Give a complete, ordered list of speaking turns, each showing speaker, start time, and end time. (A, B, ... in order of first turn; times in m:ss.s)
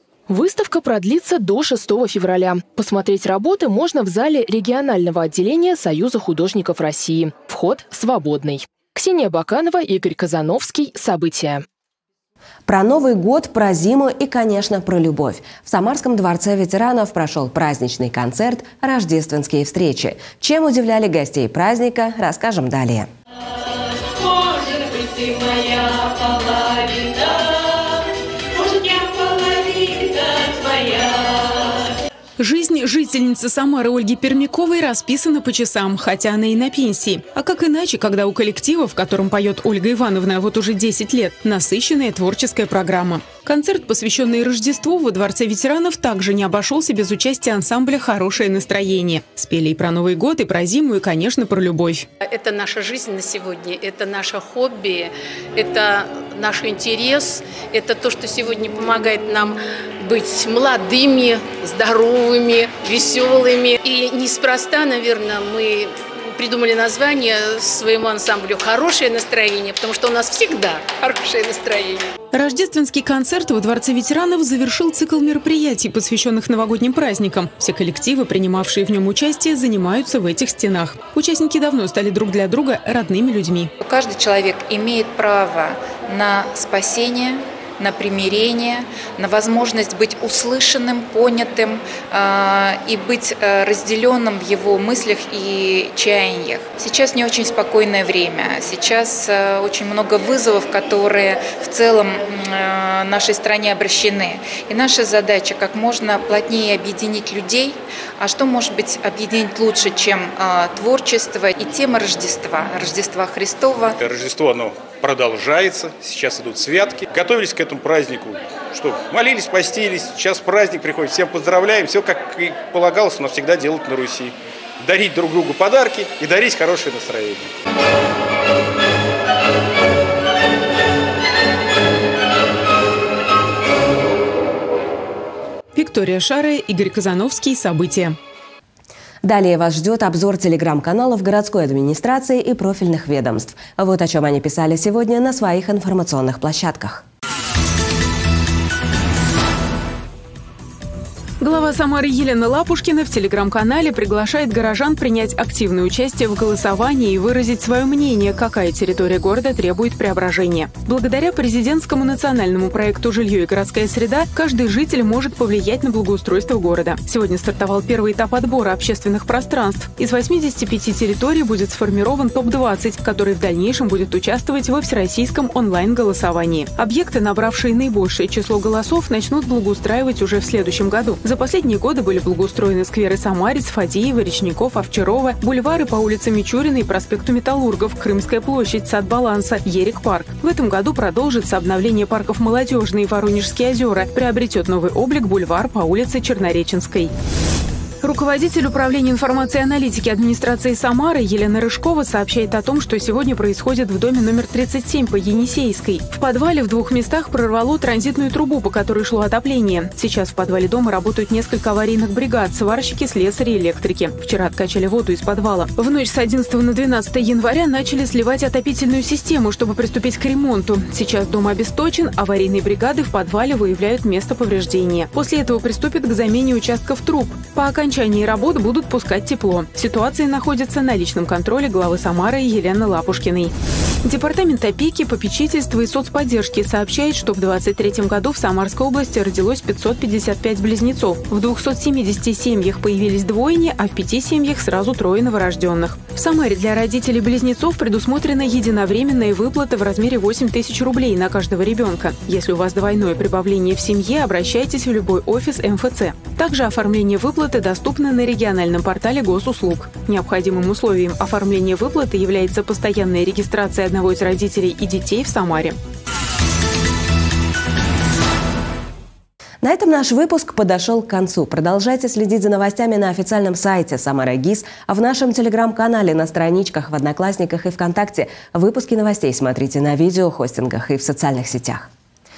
0:00.3-0:11.6 A
0:12.7-0:23.1 B
0:32.4-0:52.1 C
0:52.2-1:12.1 D
1:12.3-1:23.7 C
1:23.8-1:54.0 E
1:54.0-2:07.5 F
2:15.8-2:18.2 C
2:19.2-2:27.0 B
2:31.4-3:17.1 C
3:18.0-4:25.8 C
4:29.6-4:41.9 B